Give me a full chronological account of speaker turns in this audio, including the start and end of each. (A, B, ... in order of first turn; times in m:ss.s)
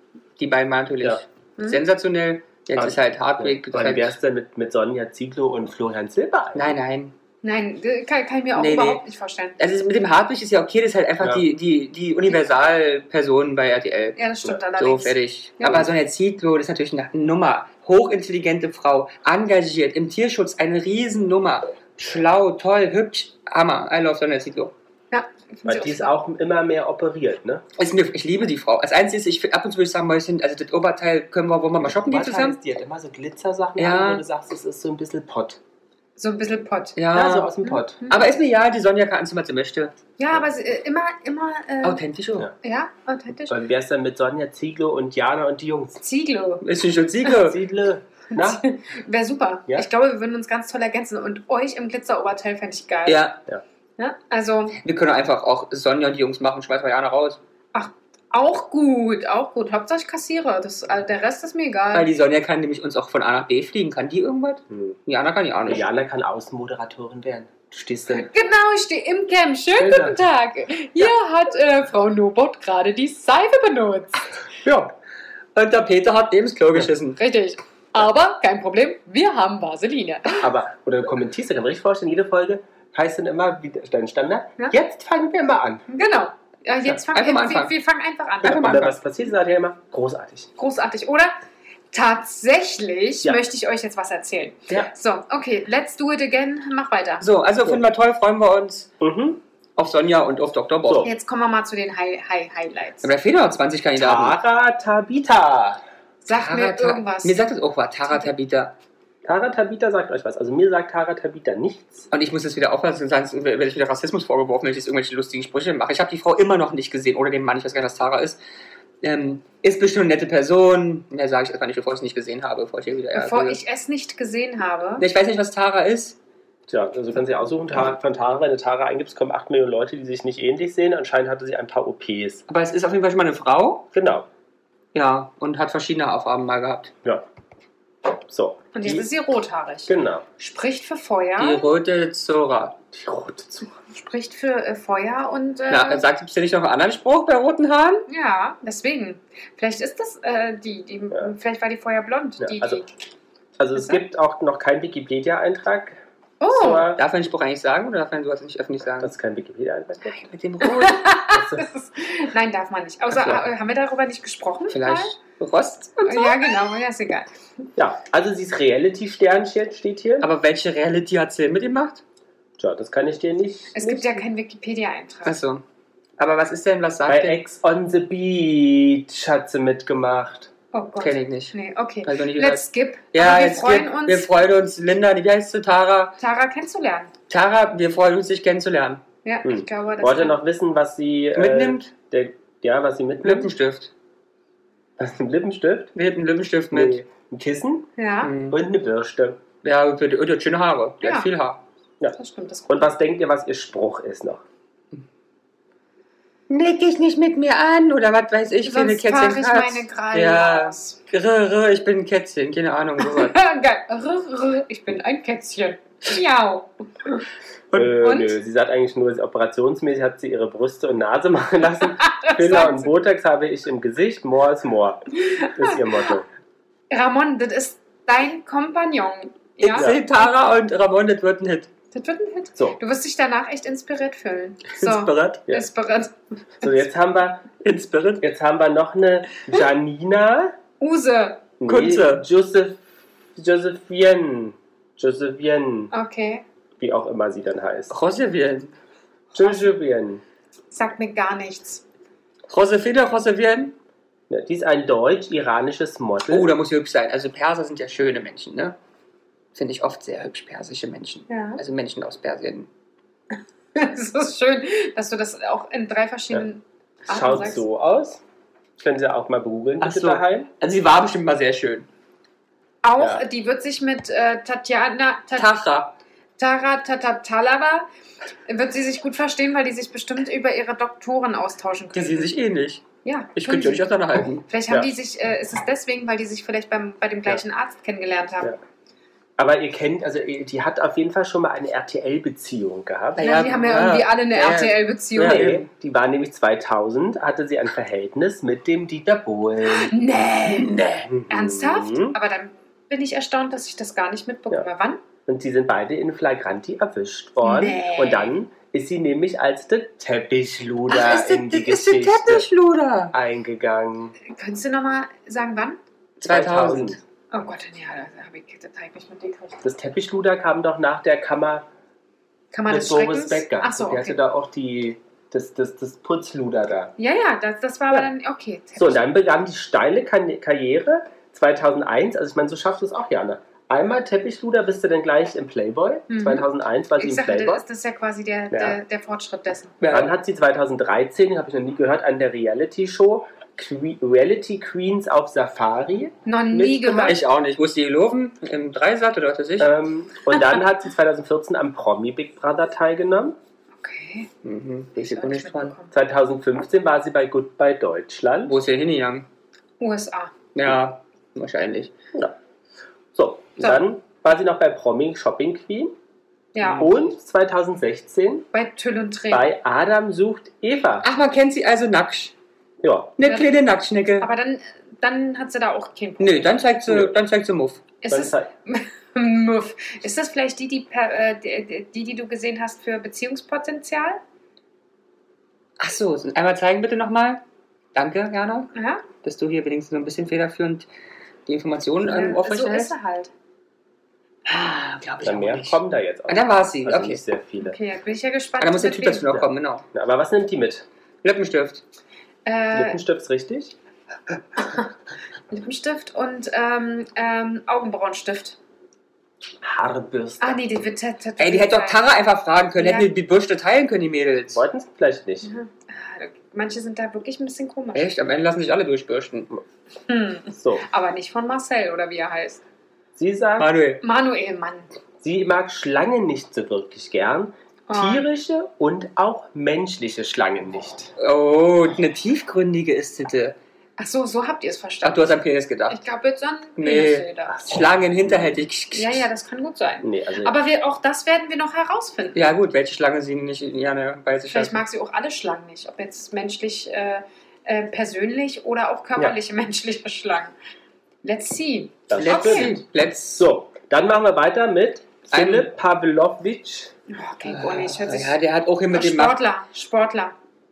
0:00.4-0:04.1 A
0:02.8-0:06.7 B
0:06.5-0:07.1 A
0:07.4-0:09.6 C
0:08.6-0:09.0 A
0:09.6-0:14.2 A
0:14.2-0:15.9 C
0:14.8-0:24.7 A
0:25.1-0:26.2 C
0:25.6-0:27.6 B
0:27.8-0:32.6 A
0:31.8-0:35.6 B
0:33.8-0:34.2 A
0:36.2-0:37.0 C
0:37.0-0:37.5 A
0:37.1-0:38.0 B
0:37.6-0:38.3 C
0:38.1-0:40.0 A
0:40.2-0:42.0 C
0:41.8-0:42.5 A
0:42.6-0:43.5 C
0:43.5-0:46.0 B
0:46.0-0:46.6 C
0:46.6-0:47.6 A
0:47.4-0:48.6 B
0:48.3-0:53.2 C
0:53.0-0:53.4 A
0:54.0-0:54.8 C
0:54.8-0:57.4 A
0:57.7-1:02.1 C
1:01.9-1:05.8 A
1:04.7-1:05.0 B
1:05.7-1:08.3 B
1:08.3-1:14.3 C
1:09.8-1:10.2 B
1:14.6-1:14.9 B
1:15.5-1:17.2 A
1:17.2-1:20.5 C
1:20.4-1:25.8 B
1:25.9-1:28.8 C
1:27.0-1:27.7 A
1:28.4-1:29.0 A
1:28.4-1:30.5 B
1:30.6-1:31.3 C
1:31.9-1:37.2 C
1:37.2-1:38.9 A
1:39.0-1:39.4 B
1:39.8-1:41.1 A
1:40.8-1:41.1 B
1:41.0-1:43.1 C
1:43.0-1:44.4 A
1:44.0-1:45.8 B
1:46.2-1:47.4 C
1:46.3-1:48.7 A
1:49.2-1:52.1 B
1:52.1-1:58.4 A
1:59.0-2:03.6 A
2:03.1-2:05.0 C
2:05.0-2:06.2 A
2:06.7-2:12.4 B
2:12.5-2:13.9 A
2:13.9-2:14.3 B
2:14.9-2:16.9 A
2:18.1-2:19.1 B
2:18.7-2:21.6 C
2:19.9-2:20.2 B
2:21.4-2:22.8 A
2:22.9-2:23.7 B
2:23.9-2:26.0 C
2:25.7-2:28.0 A
2:28.1-2:32.9 C
2:32.4-2:32.8 B
2:33.6-2:37.0 B
2:33.8-2:34.0 C
2:36.4-2:36.9 C
2:36.9-2:39.1 A
2:39.0-2:40.2 B
2:40.1-2:41.0 A
2:40.6-2:45.2 C
2:41.3-2:41.7 B
2:44.7-2:46.5 A
2:46.0-2:47.3 C
2:47.8-2:50.3 B
2:50.2-2:52.0 A
2:52.6-2:54.2 B
2:53.7-2:55.4 C
2:55.2-2:55.6 A
2:56.2-2:57.4 A
2:57.1-3:00.5 B
3:00.7-3:04.3 C
3:01.0-3:06.2 A
3:06.2-3:07.1 C
3:07.3-3:09.0 A
3:09.2-3:10.4 C
3:09.4-3:13.5 B
3:11.3-3:11.9 A
3:13.2-3:13.9 A
3:15.0-3:15.9 B
3:15.9-3:17.0 A
3:16.7-3:17.9 B
3:18.0-3:18.3 C
3:18.2-3:18.6 A
3:18.5-3:19.4 B
3:19.6-3:21.6 A
3:21.0-3:21.3 C
3:22.1-3:22.9 C
3:22.7-3:24.4 B
3:26.5-3:33.4 A
3:28.6-3:31.0 C
3:33.0-3:37.2 C
3:37.7-3:46.3 B
3:38.0-3:38.4 C
3:42.0-3:42.9 C
3:45.3-3:45.8 C
3:46.9-3:49.9 C
3:49.6-3:51.7 A
3:51.9-3:56.7 C
3:54.7-3:55.4 A
3:56.6-3:57.5 B
3:57.6-3:58.2 A
3:58.2-4:00.5 B
4:00.8-4:01.5 C
4:01.6-4:02.8 B
4:01.6-4:02.2 A
4:03.4-4:05.9 B
4:05.9-4:06.4 C
4:06.8-4:07.9 B
4:07.9-4:08.7 A
4:09.3-4:10.2 B
4:10.7-4:11.8 C
4:12.5-4:13.7 A
4:14.3-4:16.5 B
4:16.3-4:18.8 A
4:19.5-4:22.7 A
4:21.3-4:21.6 C
4:23.7-4:27.6 C
4:27.1-4:28.2 B
4:28.8-4:30.5 B
4:29.8-4:31.9 A
4:32.8-4:35.5 C
4:35.4-4:36.0 A
4:36.4-4:37.9 C
4:38.5-4:42.3 C
4:41.9-4:42.8 A
4:43.0-4:43.8 C
4:43.3-4:44.4 A
4:44.4-4:48.5 C
4:49.4-4:53.3 B
4:53.2-4:55.7 A
4:53.2-4:55.5 C
4:55.2-4:59.9 B
4:59.6-5:05.0 C
5:00.4-5:01.1 A
5:01.1-5:02.2 B
5:05.3-5:12.4 B
5:07.4-5:08.3 C
5:10.9-5:13.1 A
5:13.1-5:14.1 B
5:14.3-5:15.8 C
5:16.2-5:17.0 A
5:16.2-5:17.0 B
5:17.3-5:19.6 C
5:19.6-5:21.6 B
5:22.5-5:24.2 C
5:22.7-5:26.9 B
5:27.0-5:29.0 C
5:28.8-5:37.6 B
5:36.1-5:36.4 C
5:37.0-5:39.8 C
5:38.5-5:38.8 B
5:39.8-5:40.1 A
5:39.9-5:47.2 B
5:46.2-5:47.2 C
5:47.1-5:49.7 A
5:49.6-5:53.4 B
5:53.8-5:54.3 C
5:54.4-5:55.7 A
5:55.0-5:55.9 C
5:55.9-5:58.5 B
5:58.4-5:59.2 A
5:59.8-6:00.3 C
6:00.5-6:01.9 A
6:03.1-6:06.0 B
6:06.5-6:07.1 C
6:06.6-6:06.9 A
6:06.8-6:08.5 B
6:08.5-6:09.5 C
6:09.3-6:11.1 B
6:11.0-6:12.3 A
6:12.8-6:13.1 B
6:13.2-6:14.3 A
6:14.2-6:16.6 C
6:16.2-6:17.8 A
6:16.9-6:17.1 B
6:18.0-6:24.2 C
6:18.1-6:18.5 B
6:25.8-6:27.4 A
6:27.9-6:28.7 A
6:28.7-6:29.0 C
6:29.2-6:30.9 A
6:31.4-6:32.9 A
6:32.1-6:33.3 C
6:34.4-6:37.2 A
6:35.2-6:37.8 B
6:37.6-6:39.3 C
6:38.6-6:39.8 A
6:39.3-6:40.8 B
6:41.2-6:41.8 A
6:42.4-6:43.0 C
6:42.7-6:43.8 B
6:44.6-6:44.9 C
6:45.5-6:48.6 C
6:49.6-6:50.6 B
6:50.4-6:52.0 C
6:51.4-6:54.6 A
6:52.8-6:53.1 C
6:54.5-6:55.5 B
6:55.4-6:58.1 C
6:57.9-6:59.5 A
7:00.1-7:02.6 C
7:00.6-7:00.8 B
7:03.2-7:03.7 B
7:03.6-7:04.0 A
7:04.0-7:04.9 C
7:05.2-7:11.1 B
7:07.9-7:08.2 C
7:11.2-7:13.6 A
7:14.0-7:17.6 C
7:15.0-7:16.0 A
7:16.8-7:19.2 A
7:17.5-7:18.6 B
7:18.9-7:22.5 C
7:20.0-7:20.5 B
7:22.3-7:24.8 A
7:24.5-7:30.5 C
7:31.2-7:32.8 C
7:32.1-7:36.9 B
7:32.2-7:33.4 A
7:35.3-7:35.7 A
7:37.1-7:38.4 C
7:37.4-7:39.4 A
7:38.9-7:40.3 C